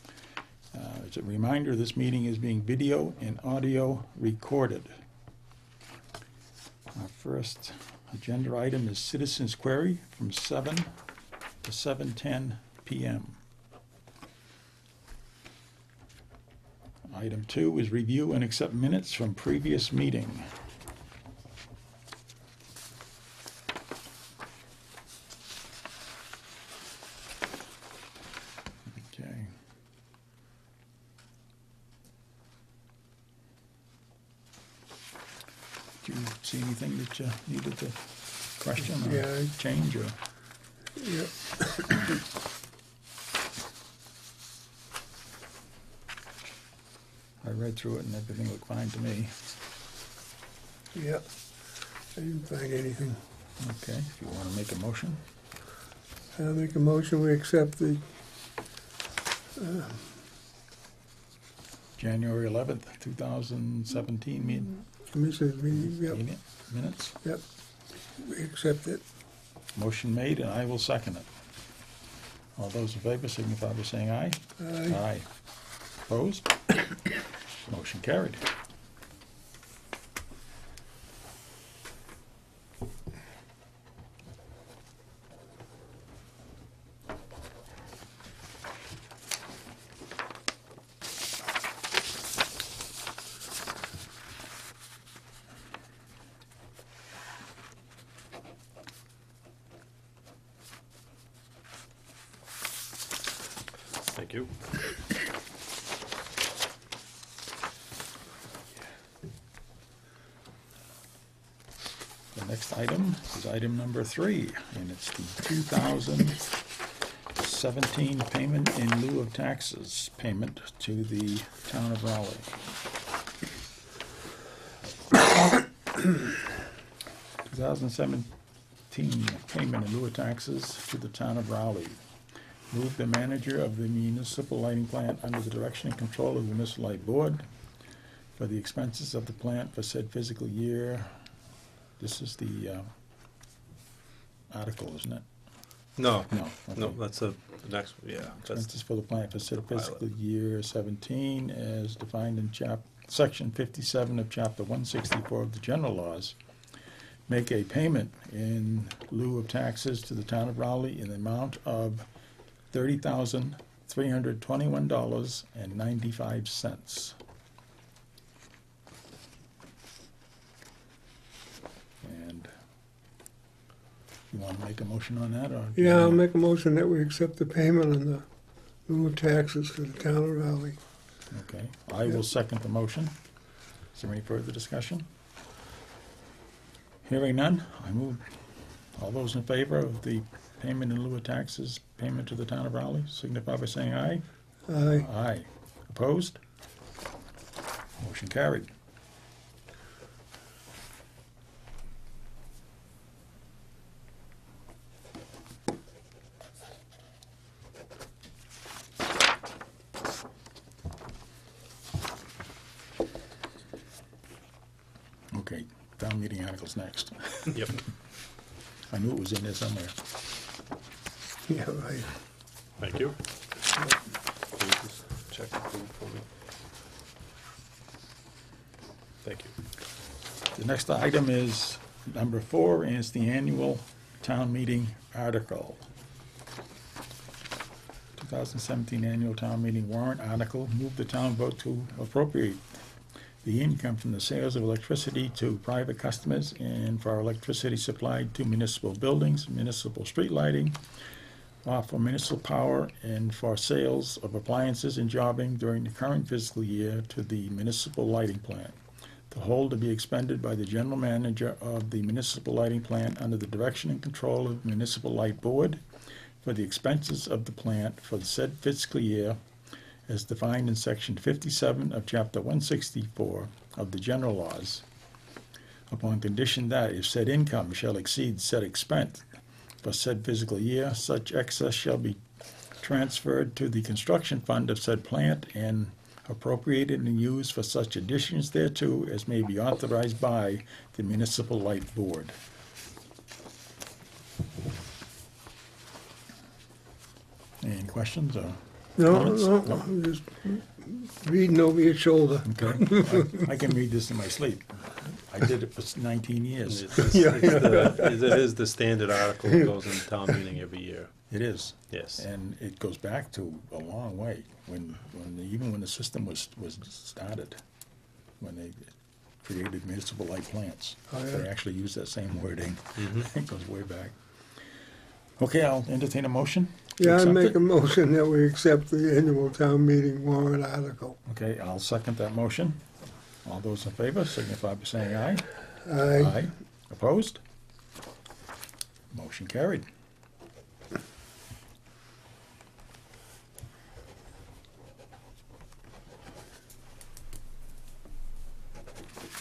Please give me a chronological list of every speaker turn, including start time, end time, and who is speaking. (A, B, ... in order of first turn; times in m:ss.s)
0:00.7-0:04.9 A
0:06.9-0:10.9 A
0:11.6-0:13.4 A
0:17.1-0:20.5 A
0:28.9-0:29.5 A
0:36.0-0:40.2 A
0:39.0-0:39.5 B
0:41.0-0:42.0 B
0:47.4-0:49.4 A
0:50.9-0:51.2 B
0:52.2-0:53.2 B
0:53.6-0:55.2 A
0:56.4-0:58.0 B
0:59.6-1:00.0 B
1:02.0-1:04.8 A
1:05.0-1:06.2 B
1:05.7-1:07.2 A
1:08.2-1:09.0 B
1:09.7-1:11.3 A
1:12.6-1:15.4 A
1:14.6-1:15.0 B
1:16.0-1:17.0 A
1:17.6-1:18.4 A
1:44.1-1:44.7 C
1:52.3-1:56.5 A
1:57.4-2:02.6 A
2:07.4-2:08.3 A
2:08.9-2:12.0 A
2:12.7-2:17.4 A
2:18.4-2:21.3 A
2:22.0-2:22.9 A
2:24.5-2:25.2 A
2:26.0-2:28.7 C
2:26.3-2:27.0 A
2:28.4-2:36.4 A
2:29.6-2:30.0 C
2:37.3-2:42.1 A
2:42.7-2:47.2 A
2:52.0-2:52.5 A
2:54.3-2:56.2 A
2:55.8-2:58.3 B
2:58.9-3:00.8 B
3:01.3-3:03.2 A
3:03.9-3:05.1 A
3:07.0-3:14.2 A
3:14.7-3:15.1 B
3:14.8-3:16.4 A
3:18.0-3:18.7 A
3:35.3-3:37.8 A
3:37.5-3:37.8 C
3:38.9-3:40.0 A
3:41.5-3:42.1 B
3:42.8-3:43.2 C
3:44.5-3:46.3 C
3:49.2-3:49.5 C
3:50.5-3:55.8 A
3:58.2-4:02.6 A
4:03.4-4:10.8 A
4:11.6-4:18.8 A
4:19.3-4:25.8 A
4:26.4-4:29.4 A
4:30.1-4:34.8 A
4:35.9-4:39.3 A
4:39.8-4:42.2 A
4:42.8-4:52.3 A
4:57.6-4:59.8 A
4:59.0-5:03.5 B
5:02.4-5:07.1 A
5:06.7-5:11.1 C
5:07.0-5:08.4 B
5:11.3-5:17.6 A
5:11.9-5:12.2 C
5:18.4-5:24.2 A
5:21.1-5:21.4 B
5:23.0-5:23.3 C
5:25.4-5:27.6 A
5:27.0-5:31.2 B
5:31.2-5:32.9 A
5:33.4-5:35.6 A
5:35.8-5:36.4 B
5:36.1-5:37.4 A
5:39.1-5:39.8 A